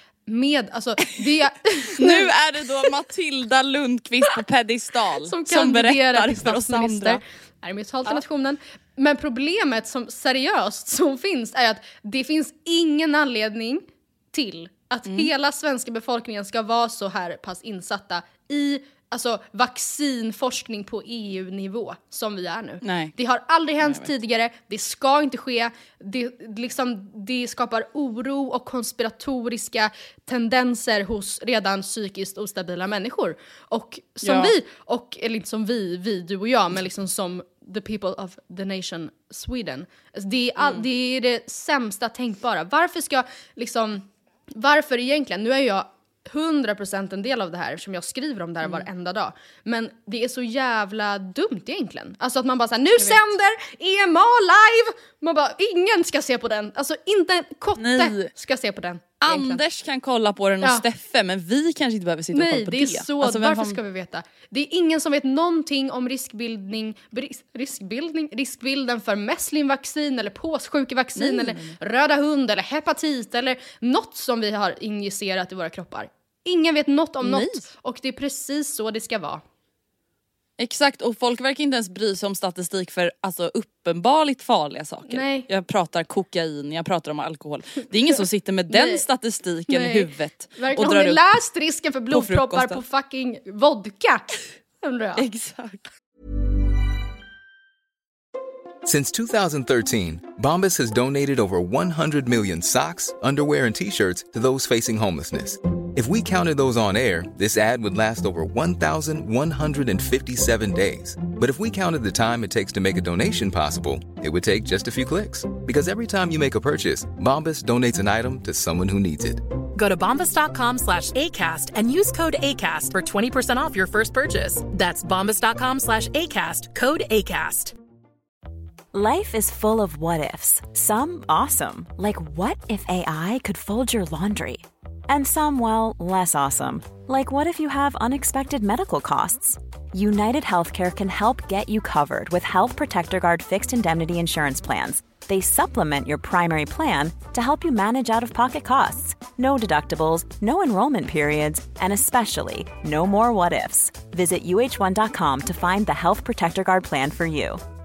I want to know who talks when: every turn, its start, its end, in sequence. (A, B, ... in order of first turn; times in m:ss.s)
0:00.3-0:02.3 A
0:01.9-0:07.2 B
0:05.3-0:59.6 A
0:22.8-0:23.1 B
0:23.8-0:24.1 B
0:34.2-0:34.5 B
0:53.0-0:53.2 B
0:57.8-0:58.3 B
0:59.2-1:03.8 B
1:02.3-1:19.4 A
1:11.2-1:11.8 B
1:17.2-1:17.6 B
1:20.6-1:31.2 B
1:25.0-1:25.4 A
1:28.7-1:29.0 A
1:29.7-1:34.3 A
1:32.1-1:32.8 B
1:34.8-1:35.2 A
1:35.2-1:35.9 B
1:38.8-1:59.4 C
1:59.8-2:07.7 D
2:08.9-2:37.6 E